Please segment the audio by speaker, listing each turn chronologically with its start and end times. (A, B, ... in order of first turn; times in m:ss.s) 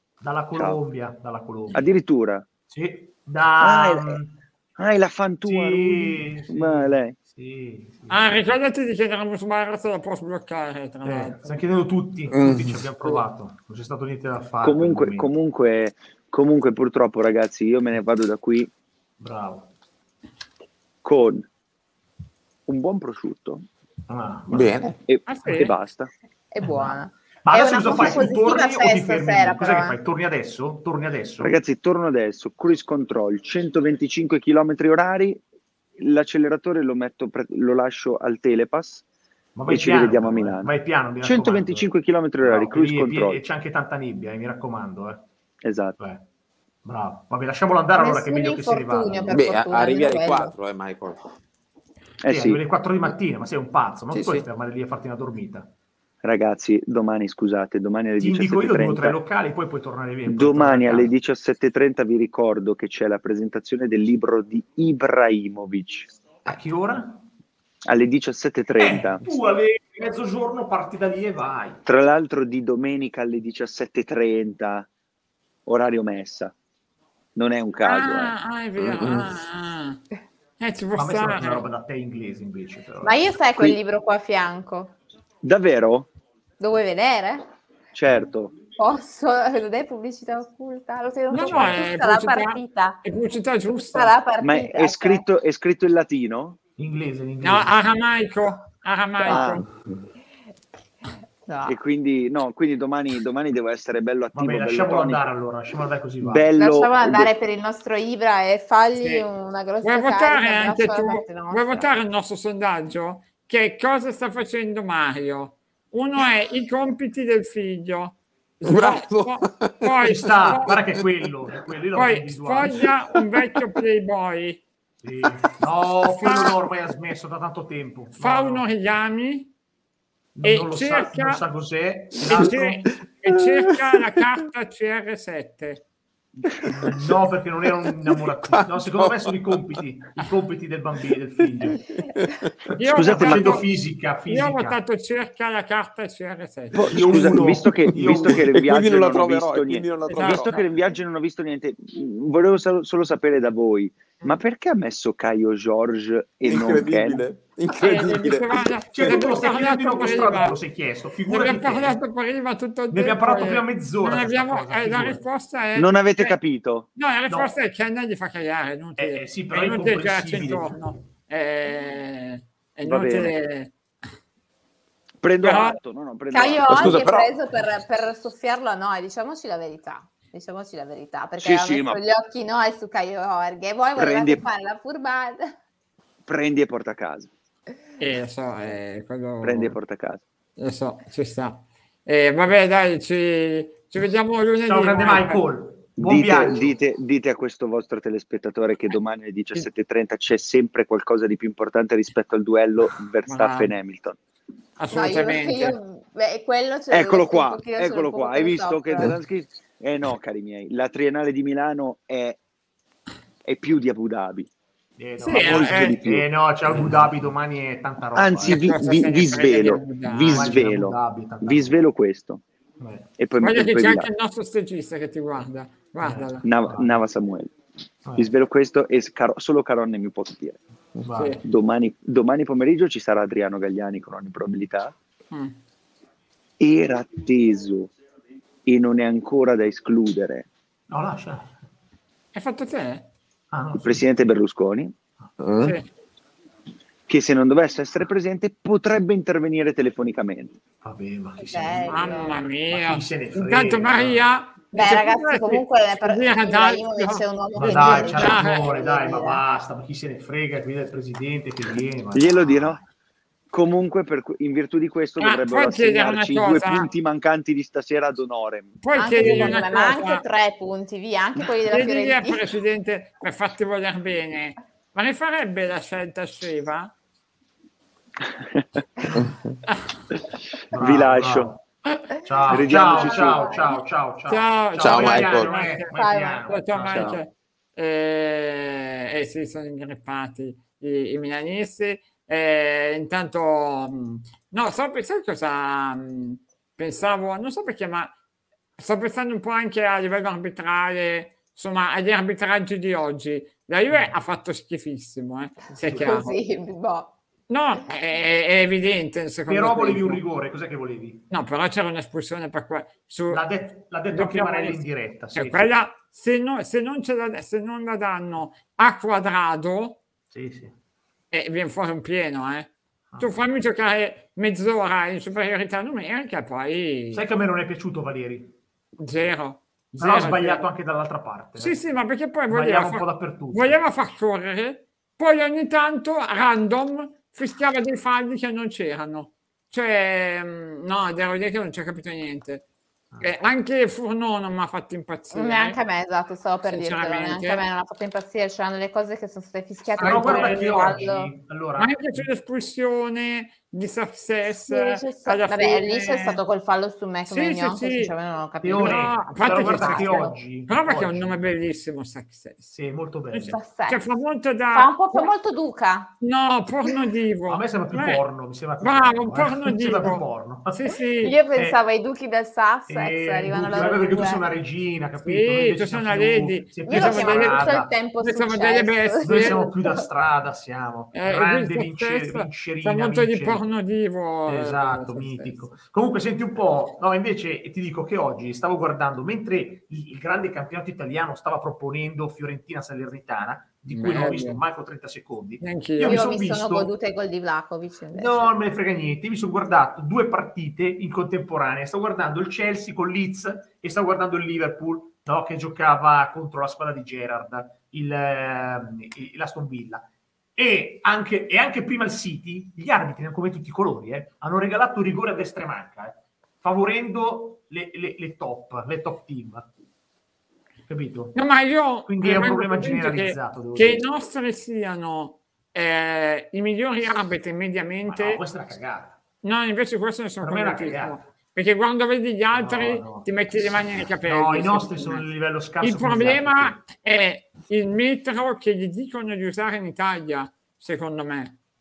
0:00.2-0:01.9 A
0:01.7-0:02.4 B
0:02.7-0:04.4 A
0:03.6-0:04.2 B
0:04.8-0:07.2 B
0:05.4-0:08.3 A
0:08.1-0:11.6 C
0:11.0-0:15.3 A
0:12.3-0:12.9 D
0:14.6-0:18.7 B
0:19.2-0:19.7 A
0:21.0-0:21.4 B
0:22.7-0:23.7 B
0:24.1-0:24.9 A
0:24.5-0:24.9 D
0:25.0-0:26.1 B
0:25.3-0:25.7 C
0:26.5-0:30.0 E
0:26.6-0:31.6 A
0:31.4-0:35.4 B
0:36.0-0:39.0 B
0:39.6-0:41.9 A
0:39.7-0:43.4 B
0:42.4-0:45.2 A
0:45.6-0:46.0 B
0:46.8-0:49.4 A
0:48.0-0:50.5 E
0:49.3-0:51.3 D
0:52.2-0:52.6 B
0:52.3-0:55.7 A
0:54.1-0:54.4 D
0:56.2-0:59.2 B
0:58.2-1:01.1 A
1:00.3-1:06.1 B
1:06.4-1:07.2 A
1:07.8-1:09.3 B
1:08.8-1:11.8 A
1:11.8-1:14.9 B
1:15.7-1:16.6 B
1:17.4-1:18.4 B
1:17.8-1:20.0 C
1:18.8-1:19.3 D
1:20.6-1:21.6 C
1:21.0-1:23.2 A
1:23.0-1:24.9 E
1:25.4-1:26.1 B
1:26.6-1:27.5 E
1:27.9-1:28.6 B
1:28.8-1:33.0 E
1:31.3-1:34.2 C
1:31.5-1:31.8 A
1:33.9-1:35.3 E
1:34.4-1:36.6 B
1:36.8-1:37.7 A
1:37.4-1:39.7 C
1:39.2-1:39.7 B
1:41.4-1:41.8 E
1:41.7-1:45.3 B
1:44.3-1:46.5 A
1:46.2-1:47.3 B
1:46.6-1:51.9 E
1:49.0-1:49.3 C
1:49.8-2:00.8 C
1:58.6-2:01.3 D
2:00.0-2:02.9 A
2:02.0-2:04.6 C
2:05.0-2:08.6 A
2:06.0-2:06.6 C
2:08.2-2:09.5 C
2:10.4-2:12.9 A
2:10.4-2:11.4 C
2:12.2-2:15.8 C
2:13.3-2:14.3 D
2:16.6-2:22.0 A
2:18.4-2:19.8 D
2:21.6-2:22.5 D
2:22.8-2:23.7 C
2:22.8-2:24.8 A
2:22.9-2:23.6 B
2:24.3-2:26.9 C
2:26.7-2:37.2 B
2:26.9-2:28.6 A
2:27.9-2:30.6 D
2:30.1-2:30.6 C
2:36.4-2:39.3 D
2:37.7-2:40.6 C
2:38.9-2:42.0 A
2:41.3-2:46.4 C
2:42.9-2:45.2 A
2:45.7-2:46.9 B
2:47.0-2:53.7 C
2:49.0-2:50.8 A
2:52.8-2:53.4 B
2:55.2-2:57.0 B
2:55.4-2:55.8 C
2:56.3-3:05.6 E
2:56.7-2:57.3 D
3:01.4-3:02.0 B
3:04.0-3:04.4 B
3:06.3-3:07.3 B
3:08.0-3:09.8 C
3:09.4-3:10.2 B
3:10.6-3:15.4 C
3:14.6-3:16.8 A
3:16.0-3:24.2 B
3:23.3-3:23.7 C
3:24.8-3:25.8 C
3:24.9-3:29.1 E
3:26.9-3:32.4 B
3:33.4-3:34.5 B
3:35.0-3:38.6 A
3:35.2-3:36.0 C
3:35.3-3:36.3 B
3:38.1-3:42.4 B
3:38.4-3:40.6 C
3:40.3-3:41.8 A
3:42.8-3:43.1 A
3:43.2-3:44.1 B
3:43.4-3:46.4 C
3:46.0-3:47.0 A
3:46.4-3:47.5 B
3:48.0-3:48.3 A
3:48.2-3:50.6 B
3:51.0-3:51.4 A
3:51.1-3:51.4 C
3:51.4-3:55.0 B
3:55.3-3:55.6 C
3:56.6-3:57.9 B
3:58.7-4:00.5 B
4:00.9-4:01.6 A
4:02.3-4:03.1 C
4:03.5-4:04.0 A
4:03.8-4:05.0 B
4:05.4-4:05.8 D
4:05.6-4:05.9 C
4:07.1-4:10.6 B
4:10.8-4:14.3 A
4:11.4-4:12.4 E
4:11.9-4:18.7 C
4:14.7-4:19.4 E
4:17.6-4:22.8 A
4:22.1-4:22.8 B
4:23.5-4:28.8 B
4:25.2-4:26.9 C
4:28.8-4:30.2 C
4:29.0-4:32.5 E
4:31.7-4:36.9 C
4:38.3-4:38.8 B
4:39.1-4:39.4 A
4:40.7-4:41.6 A
4:40.7-4:41.5 B
4:42.2-4:47.2 A
4:42.5-4:43.5 B
4:42.6-4:43.8 E
4:44.3-4:45.9 C
4:44.8-4:45.6 D
4:45.9-4:46.5 E
4:46.5-4:58.1 C
4:46.9-4:47.2 B
4:58.8-5:06.4 C
5:05.8-5:06.2 A
5:06.0-5:07.1 E
5:07.5-5:10.2 C
5:09.5-5:11.2 A
5:11.3-5:13.4 C
5:13.3-5:15.7 A
5:14.1-5:14.8 C
5:15.3-5:20.0 C
5:20.3-5:20.7 A
5:21.3-5:27.2 C
5:27.1-5:28.6 A
5:29.0-5:30.7 C
5:29.9-5:31.8 A
5:31.6-5:42.7 C
5:32.5-5:33.8 A
5:43.2-5:45.8 C
5:45.3-5:51.3 E
5:46.7-5:47.6 C
5:50.0-5:50.7 C
5:50.0-5:52.3 A
5:51.8-5:56.4 C
5:54.6-6:00.4 E
5:57.3-5:58.1 C
5:58.6-6:01.4 A
5:58.8-6:02.7 C
6:02.7-6:03.6 A
6:03.3-6:05.3 C
6:03.4-6:04.1 E
6:04.7-6:06.1 E
6:06.2-6:08.2 C
6:07.5-6:10.9 A
6:08.8-6:11.4 C
6:11.2-6:14.4 E
6:12.9-6:17.9 A
6:15.2-6:19.6 C
6:16.8-6:20.0 E
6:19.2-6:23.6 A
6:21.1-6:25.6 C
6:24.5-6:36.9 A
6:33.9-6:34.6 C
6:35.6-6:36.2 C
6:36.0-6:38.5 E
6:38.1-6:50.0 A
6:50.6-6:59.7 A
7:00.9-7:01.4 A
7:01.4-7:08.4 C
7:02.1-7:04.0 A
7:08.1-7:09.2 A
7:09.4-7:15.2 C
7:10.4-7:11.2 A
7:12.5-7:13.3 A
7:14.3-7:16.8 A
7:15.8-7:21.6 C